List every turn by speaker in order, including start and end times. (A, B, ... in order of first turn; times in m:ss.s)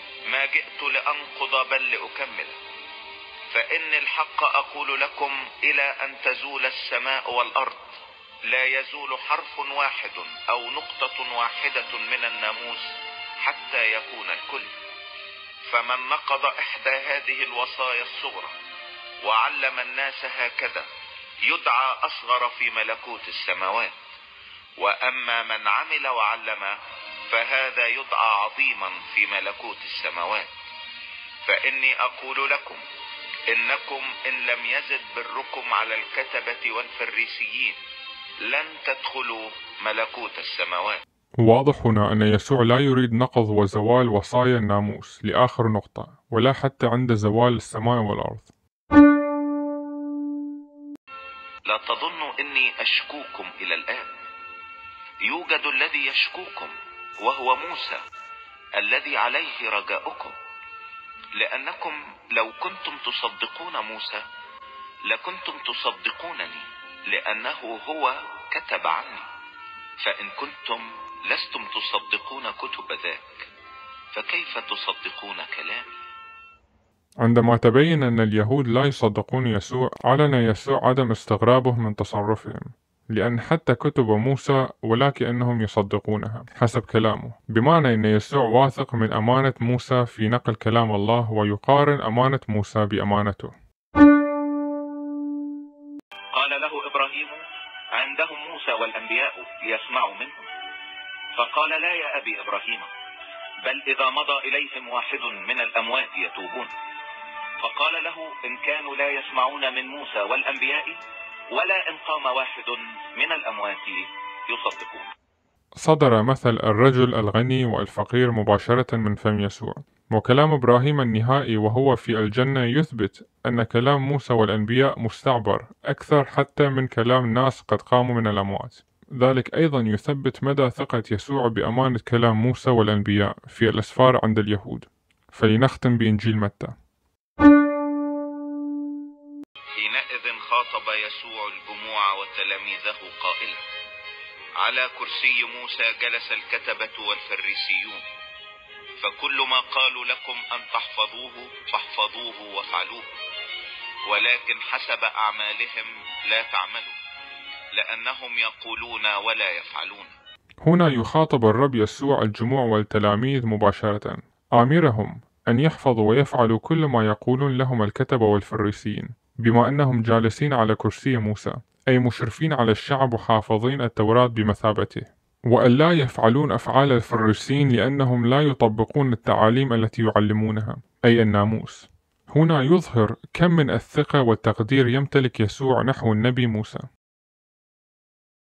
0:00.3-0:02.6 A
0:03.5-0:14.8 A
0:15.7-0:18.6 A
0:19.2-0:20.9 A
0:21.4-0:24.0 A
0:24.8-0:26.8 A
0:27.3-0:30.5 A
0:31.4-0:32.8 A
0:33.5-0:37.8 A
0:38.4-0:41.0 A
0:41.4-0:48.5 B
0:51.7-0:54.1 A
0:55.2-0:58.0 A
0:58.8-1:00.4 A
1:01.4-1:04.2 A
1:05.1-1:09.3 A
1:10.0-1:13.5 A
1:14.1-1:15.9 A
1:17.2-1:33.5 B
1:36.3-1:37.4 A
1:37.9-1:40.4 A
1:41.4-1:42.9 A
1:43.6-1:46.7 A
1:47.6-1:51.0 A
1:51.5-1:55.1 A
1:55.8-2:16.8 B
2:19.8-2:23.6 A
2:24.6-2:28.1 A
2:29.0-2:33.1 A
2:34.1-2:37.0 A
2:37.7-2:40.1 A
2:40.6-3:06.9 B